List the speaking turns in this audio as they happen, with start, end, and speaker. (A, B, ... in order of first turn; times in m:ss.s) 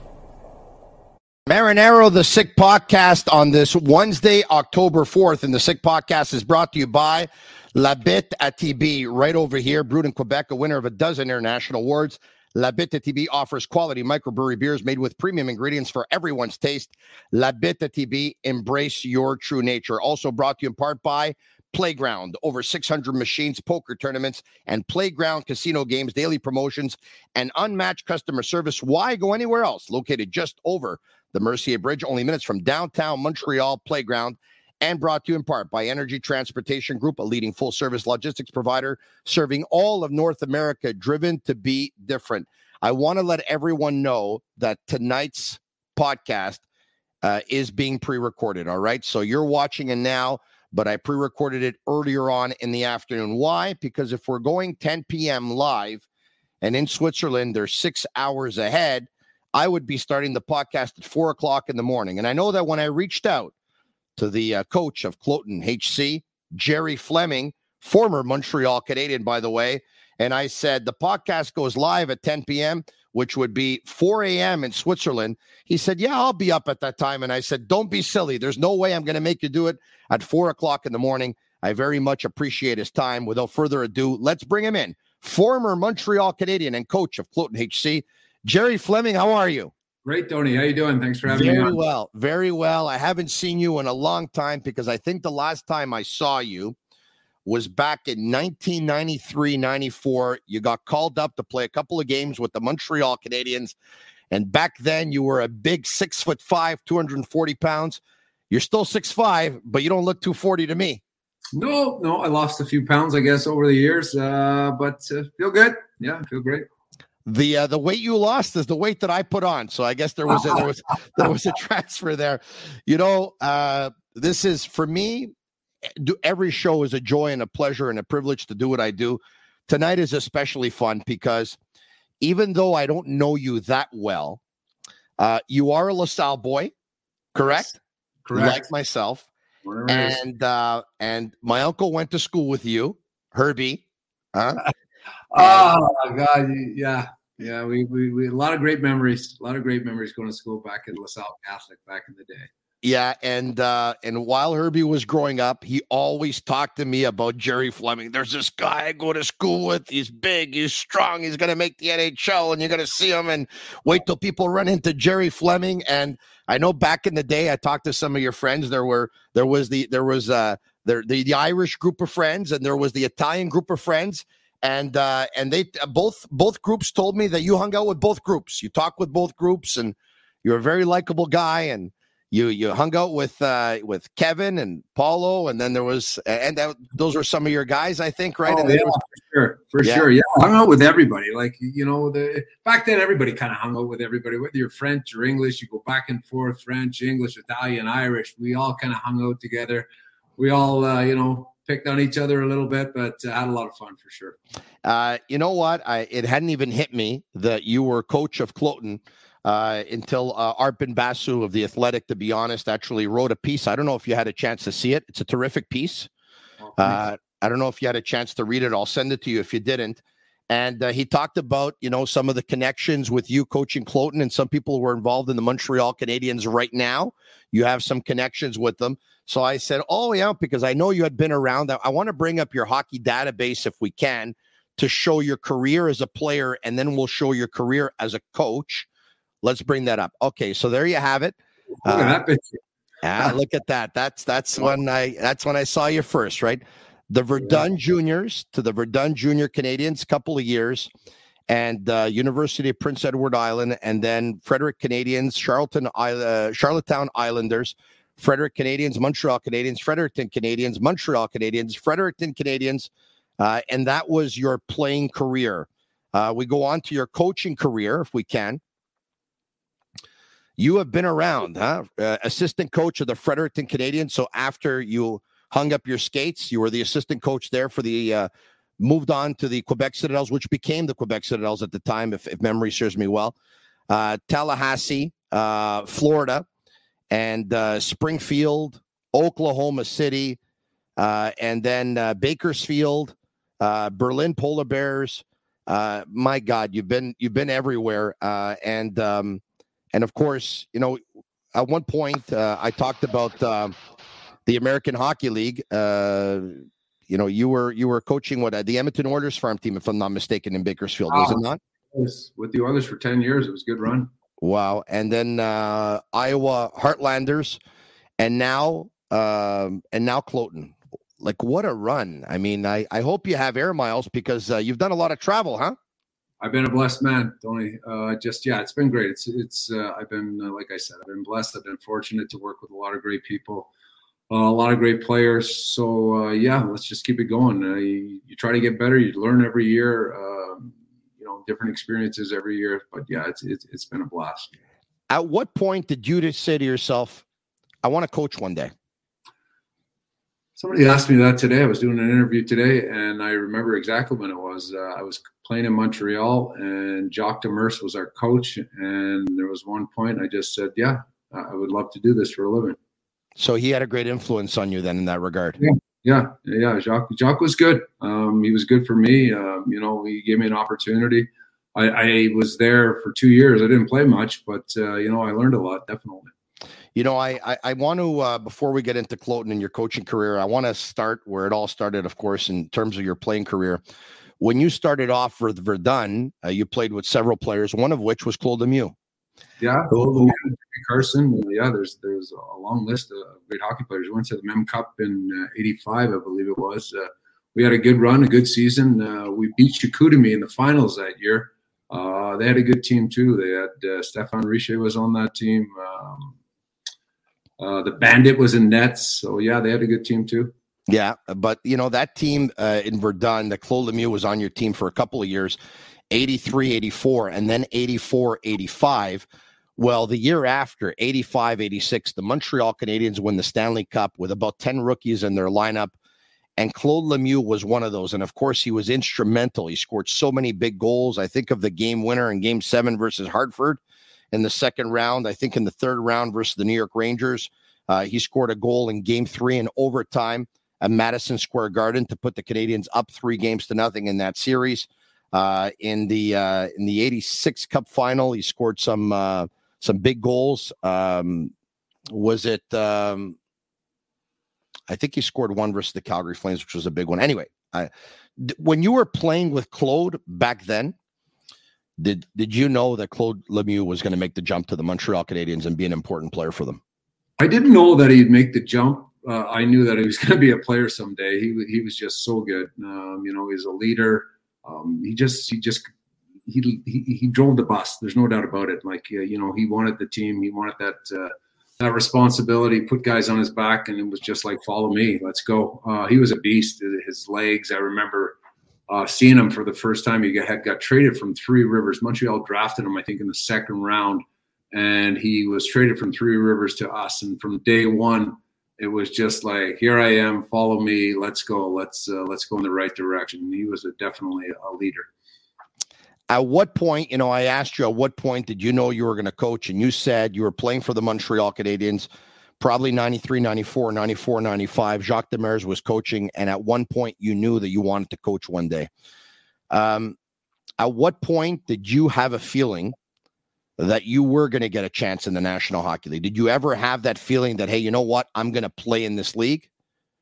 0:01.5-0:46.6 A
0:47.2-0:56.0 A
0:56.6-1:03.5 A
1:04.2-1:29.7 A
1:30.0-1:31.7 B
1:31.3-1:36.7 A
1:37.4-1:43.7 A
1:44.3-1:51.0 A
1:51.5-1:56.6 B
1:57.2-2:05.3 A
2:06.0-2:11.6 A
2:12.2-2:14.4 A
2:15.2-2:16.7 A
2:17.3-2:17.8 A
2:18.2-2:18.6 B
2:18.3-2:19.3 A
2:19.6-2:20.2 B
2:19.9-2:24.6 A
2:25.3-2:32.5 B
2:25.4-2:25.7 A
2:32.8-3:09.0 A
3:08.4-3:24.4 B
3:24.8-3:36.1 A
3:36.6-3:37.0 B
3:36.8-3:58.9 A
3:59.4-4:02.2 A
4:01.8-4:02.6 B
4:03.0-4:10.9 A
4:11.5-4:28.6 A
4:30.6-4:38.3 A
4:38.8-4:43.3 A
4:43.9-4:46.4 A
4:47.1-4:50.4 A
4:51.0-4:59.4 A
4:59.9-5:01.0 A
5:01.5-5:03.7 A
5:04.4-5:06.6 A
5:07.1-5:11.6 A
5:11.1-5:11.4 B
5:11.9-5:14.1 B
5:14.4-5:17.6 A
5:18.2-5:25.8 A
5:26.4-5:33.7 B
5:34.3-5:44.5 B
5:45.1-5:47.2 A
5:47.8-5:48.7 A
5:50.6-6:02.8 B
6:03.4-6:05.6 A
6:05.6-6:16.3 B
6:16.9-6:23.8 A
6:24.4-6:28.9 A
6:29.6-6:46.4 B
6:29.9-6:30.3 A
6:47.6-6:50.5 B
6:50.9-6:55.6 A
6:56.1-6:59.2 A
6:59.8-7:05.9 A
7:06.6-7:13.8 A
7:14.3-7:31.5 A
7:32.1-7:33.4 A
7:34.9-7:40.9 A
7:42.0-7:46.8 A
7:47.4-7:55.9 B
7:56.4-8:08.4 B
8:08.9-8:25.1 B
8:26.3-8:32.1 A
8:32.6-8:38.9 A
8:39.7-8:40.2 A
8:40.8-8:43.0 A
8:43.8-8:49.7 A